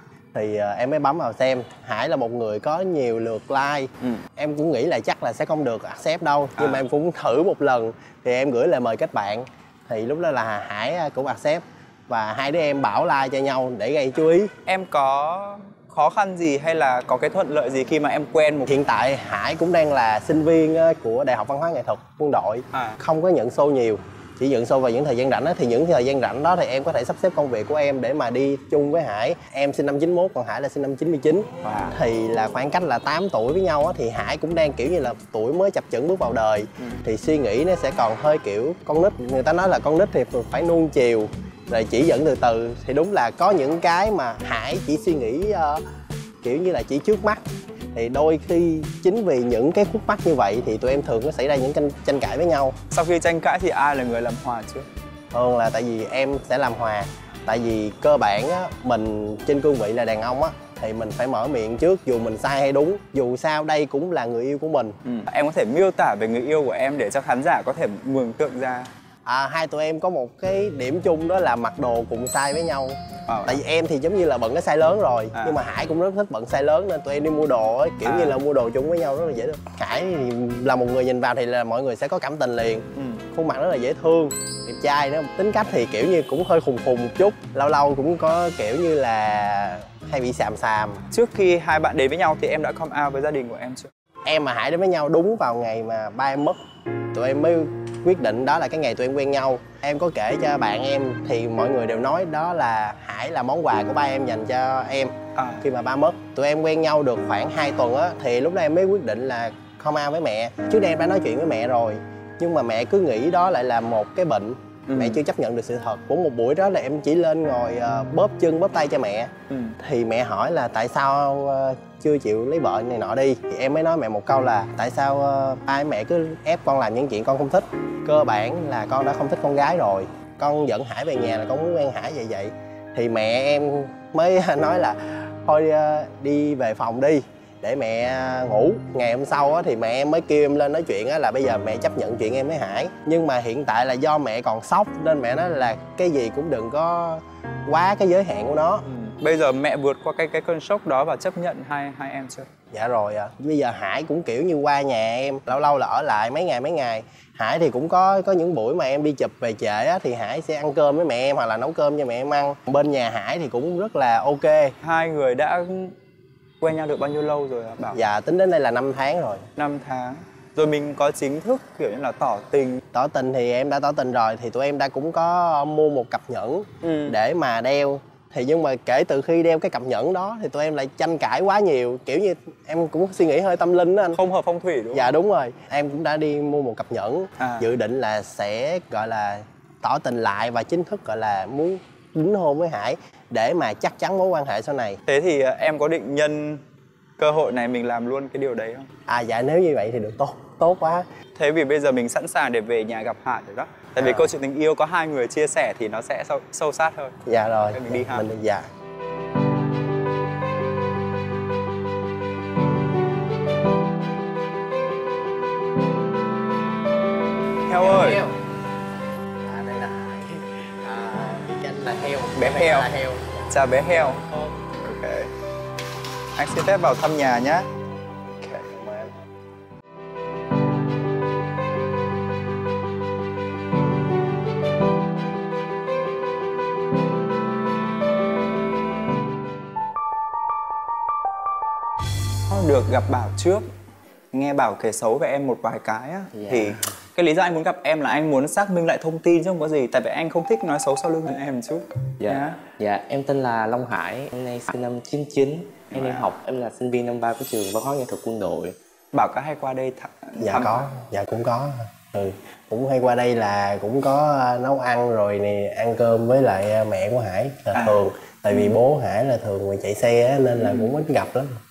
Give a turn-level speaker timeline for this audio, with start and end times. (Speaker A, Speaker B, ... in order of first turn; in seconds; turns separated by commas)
Speaker A: 0.3-14.5, Speaker B: 6.6-6.9, Speaker B: 14.7-18.8, Speaker A: 18.7-45.8, Speaker B: 31.6-32.0, Speaker A: 46.4-47.4, Speaker A: 47.9-52.8, Speaker B: 52.9-54.9, Speaker A: 55.3-65.0, Speaker B: 65.0-68.9, Speaker A: 69.3-91.0, Speaker B: 73.3-73.6, Speaker B: 78.0-78.4, Speaker B: 82.9-83.2, Speaker B: 91.1-93.9, Speaker A: 94.3-96.6, Speaker A: 97.1-148.8, Speaker B: 105.3-105.7, Speaker B: 114.9-115.2, Speaker B: 119.5-119.8, Speaker B: 148.9-152.5, Speaker A: 152.7-164.7, Speaker B: 164.8-165.9, Speaker B: 166.6-168.0, Speaker A: 167.9-169.4, Speaker B: 169.6-172.8, Speaker A: 172.9-184.2, Speaker B: 176.8-177.2, Speaker B: 184.1-185.2, Speaker A: 184.9-195.0, Speaker B: 187.4-187.7, Speaker B: 195.1-196.6, Speaker B: 197.2-198.9, Speaker A: 199.1-201.1, Speaker B: 201.3-207.2, Speaker A: 204.0-204.3, Speaker A: 207.3-208.7, Speaker B: 207.7-208.3, Speaker B: 217.7-218.3, Speaker A: 217.8-218.3, Speaker A: 219.4-223.5, Speaker B: 222.3-222.9, Speaker B: 223.5-225.3, Speaker B: 226.4-227.7, Speaker A: 228.4-229.1, Speaker B: 242.5-243.7, Speaker B: 244.3-252.7, Speaker C: 246.3-246.9, Speaker C: 252.2-258.8, Speaker B: 255.9-256.3, Speaker B: 259.1-260.9, Speaker A: 260.4-271.6, Speaker B: 267.7-268.8, Speaker B: 270.6-271.0